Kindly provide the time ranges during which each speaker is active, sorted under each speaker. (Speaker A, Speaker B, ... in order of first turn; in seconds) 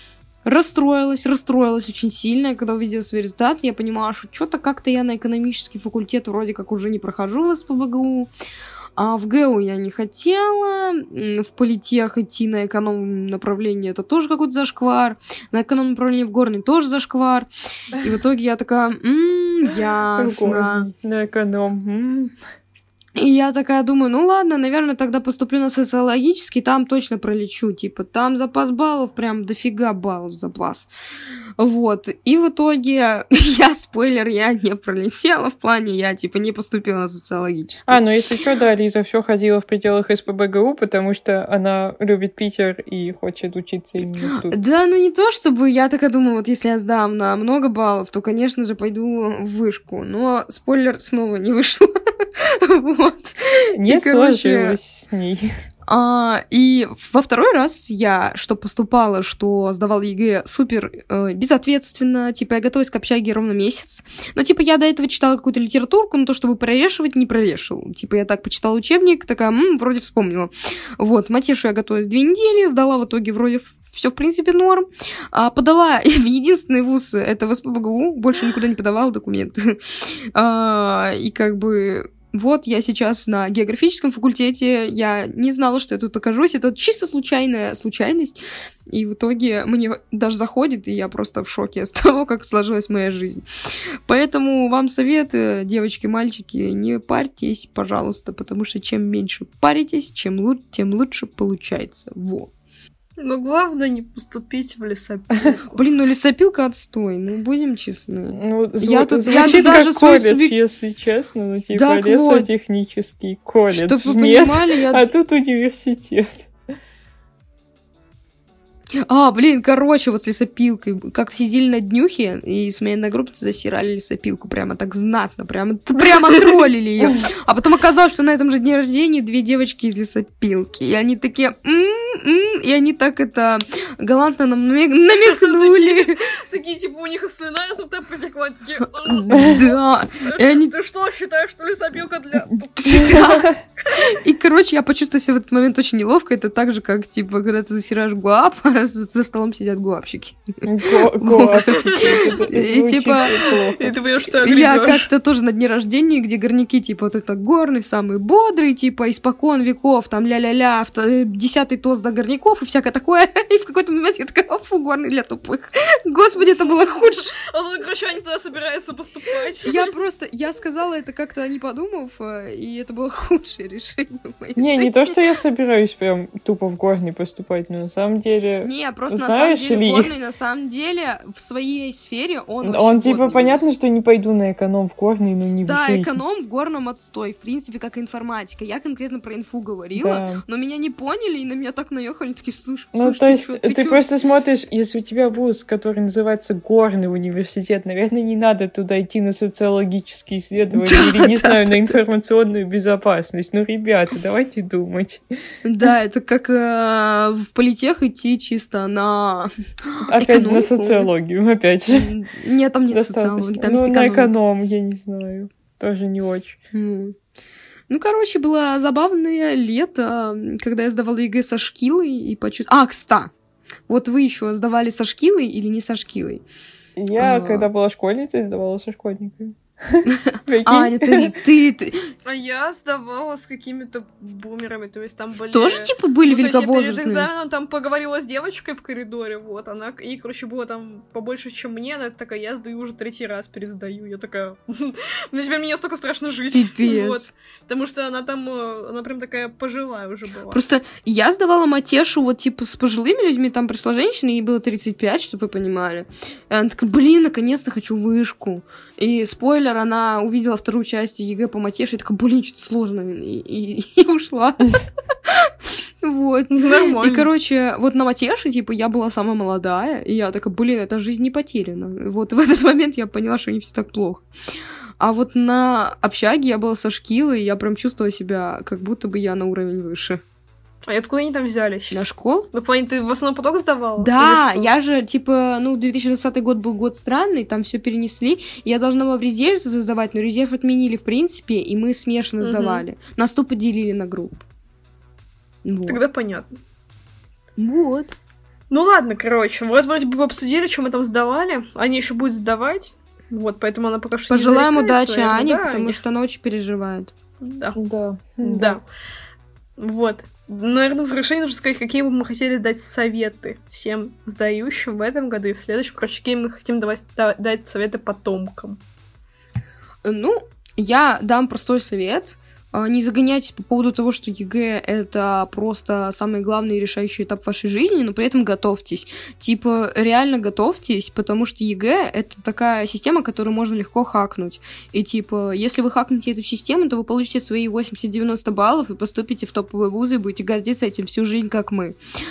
Speaker A: 0.4-8.3, 8.9-17.5, 18.0-20.9, 23.2-30.9, 31.6-38.0, 44.3-54.8, 55.9-88.4, 88.9-93.4, 94.0-102.5, 105.7-110.5, 111.7-112.5, 113.7-115.1, 119.0-136.2, 139.3-140.7, 142.8-150.4, 151.2-153.5, 154.4-167.3, 169.6-175.2, 178.6-183.6, 185.6-194.0, 200.7-202.0, 205.6-211.1, 211.9-214.3, 216.7-217.1, 217.9-223.3, 223.9-226.4, 227.2-227.7, 230.1-232.1, 235.5-237.3, 246.5-247.3, 250.5-274.2, 275.0-280.2, 281.9-282.5, 284.0-294.4, 295.6-296.0, 297.6-298.1, 304.3-307.1, 320.0-341.9
Speaker B: 20.2-22.3, 37.9-44.5, 53.8-55.5, 108.3-116.5, 139.1-139.6, 143.0-143.6, 150.6-153.9, 174.6-180.1, 182.6-186.2, 189.9-190.4, 192.9-205.2, 210.0-212.1, 212.9-216.6, 227.0-231.3, 307.8-308.8
Speaker C: 103.2-105.8, 135.2-143.1, 153.4-155.1, 166.4-169.9, 232.2-250.6, 266.5-267.3, 280.9-282.0, 282.5-284.7, 292.4-292.8, 295.9-296.5, 298.7-306.0, 307.4-307.8, 308.4-308.8, 309.8-318.8